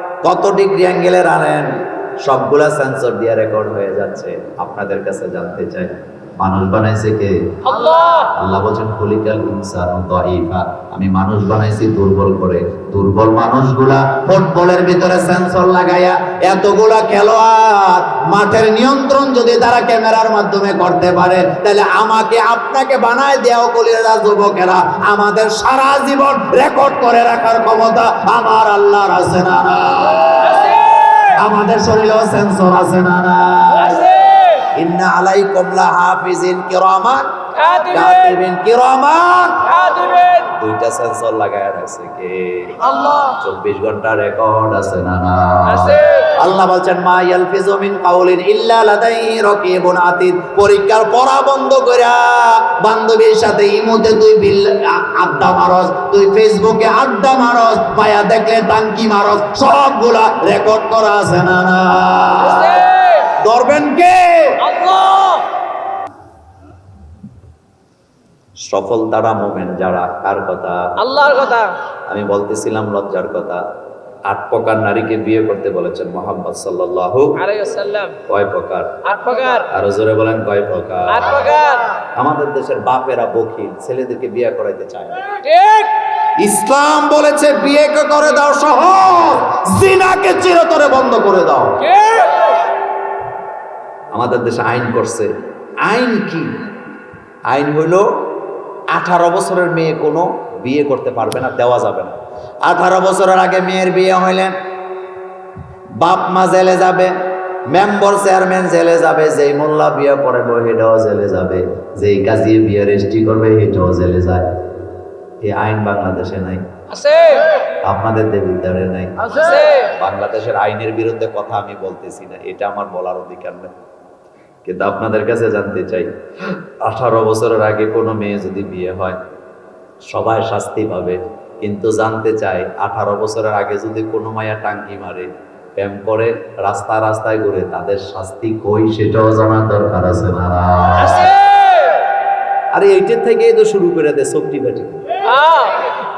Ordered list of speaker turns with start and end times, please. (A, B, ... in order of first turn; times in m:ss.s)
0:00.2-0:07.5 A
0:07.6-0:08.3 B
0:08.3-0:34.1 A
0:30.4-0:31.3 B
0:33.9-0:34.6 B
0:34.7-0:37.3 A
0:37.6-0:38.2 B
0:37.9-0:39.7 A
0:39.7-0:40.5 B
0:40.4-1:04.7 A
0:45.7-0:46.3 B
1:02.5-1:03.3 B
1:04.6-1:05.5 B
1:08.6-1:11.0 A
1:11.0-1:11.8 B
1:12.1-1:13.6 A
1:14.3-1:17.4 A
1:17.4-1:18.2 B
1:18.2-1:19.0 A
1:19.0-1:19.7 B
1:19.7-1:21.6 A
1:21.2-1:21.9 B
1:22.2-1:25.2 A
1:25.4-1:26.0 B
1:26.4-1:31.9 A
1:31.8-1:32.6 B
1:34.1-1:35.3 A
1:35.8-1:36.6 A
1:37.5-1:38.1 A
1:38.9-1:44.5 A
1:46.0-1:47.2 A
1:47.7-1:54.5 A
1:55.4-1:56.6 A
1:56.9-1:57.5 B
1:57.8-2:03.7 A
1:59.4-1:59.9 B
2:04.6-2:06.1 A
2:06.8-2:09.2 A
2:10.1-2:21.4 A
2:21.0-2:22.0 B
2:22.7-2:25.0 A
2:25.3-2:26.0 B